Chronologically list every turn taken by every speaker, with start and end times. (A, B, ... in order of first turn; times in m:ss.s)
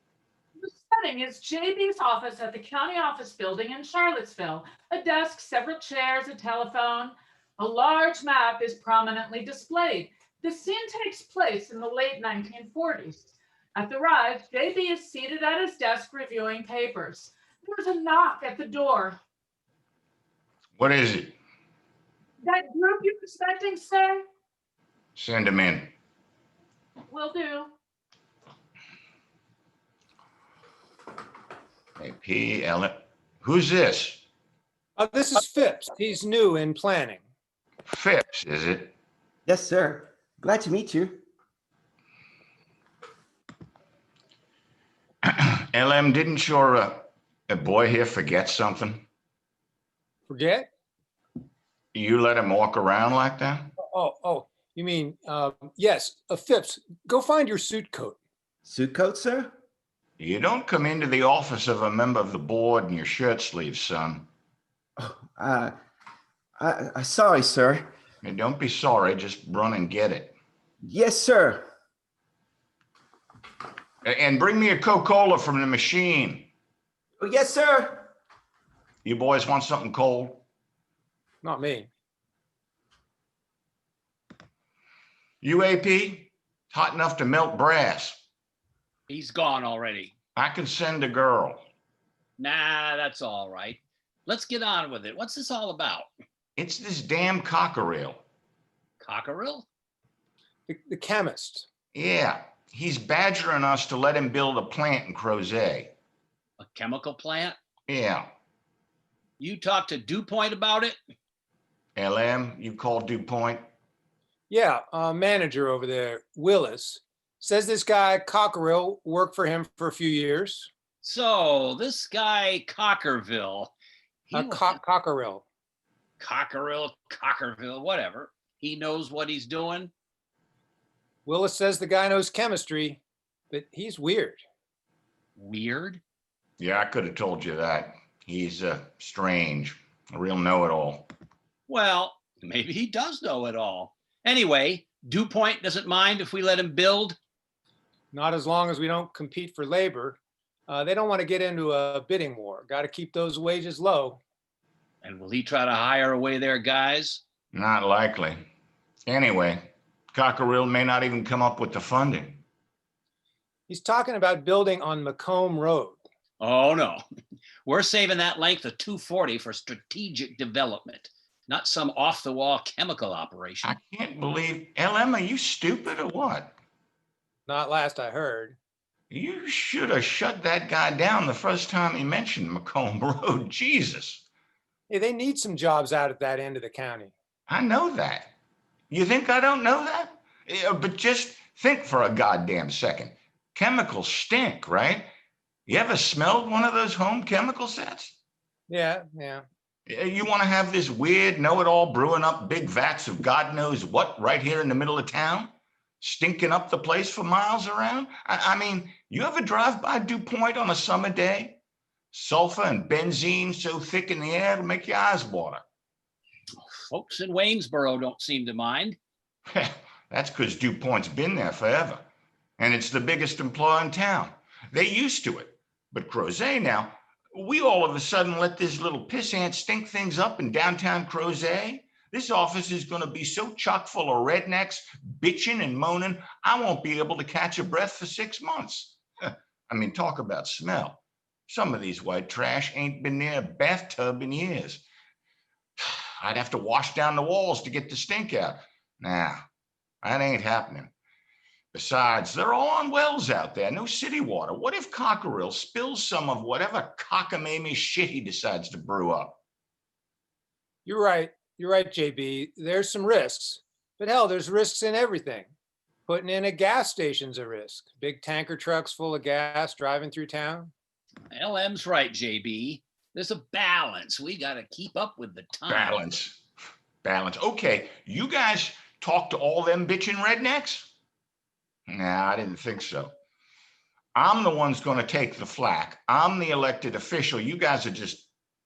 0:00.6-0:19.2 A
0:20.8-0:21.4 B
0:22.4-0:24.2 A
0:25.2-0:25.9 B
0:27.1-0:27.7 A
0:32.0-0:34.2 B
0:35.0-0:37.2 C
0:37.8-0:38.9 B
0:39.4-0:41.2 D
0:45.2-0:49.0 B
0:50.3-0:50.7 C
0:51.9-0:53.7 B
0:53.8-0:58.2 C
0:58.6-0:59.5 D
1:00.2-1:04.3 B
1:05.0-1:05.8 D
1:06.6-1:07.9 D
1:08.2-1:10.4 B
1:10.8-1:11.6 D
1:14.0-1:16.5 B
1:17.2-1:18.1 D
1:19.0-1:20.4 B
1:21.4-1:21.9 C
1:25.4-1:28.2 B
1:29.1-1:30.1 E
1:30.3-1:31.6 B
1:32.4-1:36.1 E
1:36.6-1:38.2 B
1:39.0-1:39.6 E
1:40.7-1:41.7 C
1:41.9-1:45.9 B
1:46.6-1:47.6 E
1:47.9-1:48.3 B
1:49.4-1:51.0 E
1:52.0-1:53.6 B
1:54.5-2:00.7 C
2:01.0-2:03.7 E
2:04.3-2:04.8 E
2:04.3-2:05.4 C
2:06.2-2:09.9 E
2:11.2-2:14.4 C
2:15.4-2:16.0 E
2:16.6-2:21.1 B
2:21.7-2:27.2 E
2:28.1-2:34.2 C
2:35.0-2:37.2 E
2:37.5-2:38.4 B
2:39.1-2:42.4 B
2:43.7-2:46.0 C
2:46.4-2:47.0 E
2:47.6-2:53.7 E
2:53.6-2:56.5 B
2:57.5-2:58.6 C
2:59.1-3:04.2 B
3:04.9-3:07.1 C
3:07.5-3:08.3 B
3:08.9-3:15.1 B
3:15.7-3:18.1 B
3:18.7-3:19.4 C
3:19.9-3:31.6 B
3:32.1-3:35.6 B
3:36.6-3:39.0 E
3:39.5-3:42.0 B
3:42.6-4:04.8 B
4:05.8-4:09.4 B
4:10.0-4:10.9 B
4:11.7-4:19.4 B
4:20.8-4:25.5 C
4:26.1-4:30.7 C
4:31.3-4:36.0 E
4:35.7-4:36.4 B
4:37.0-4:40.9 B
4:41.9-4:43.1 B
4:44.1-4:48.3 B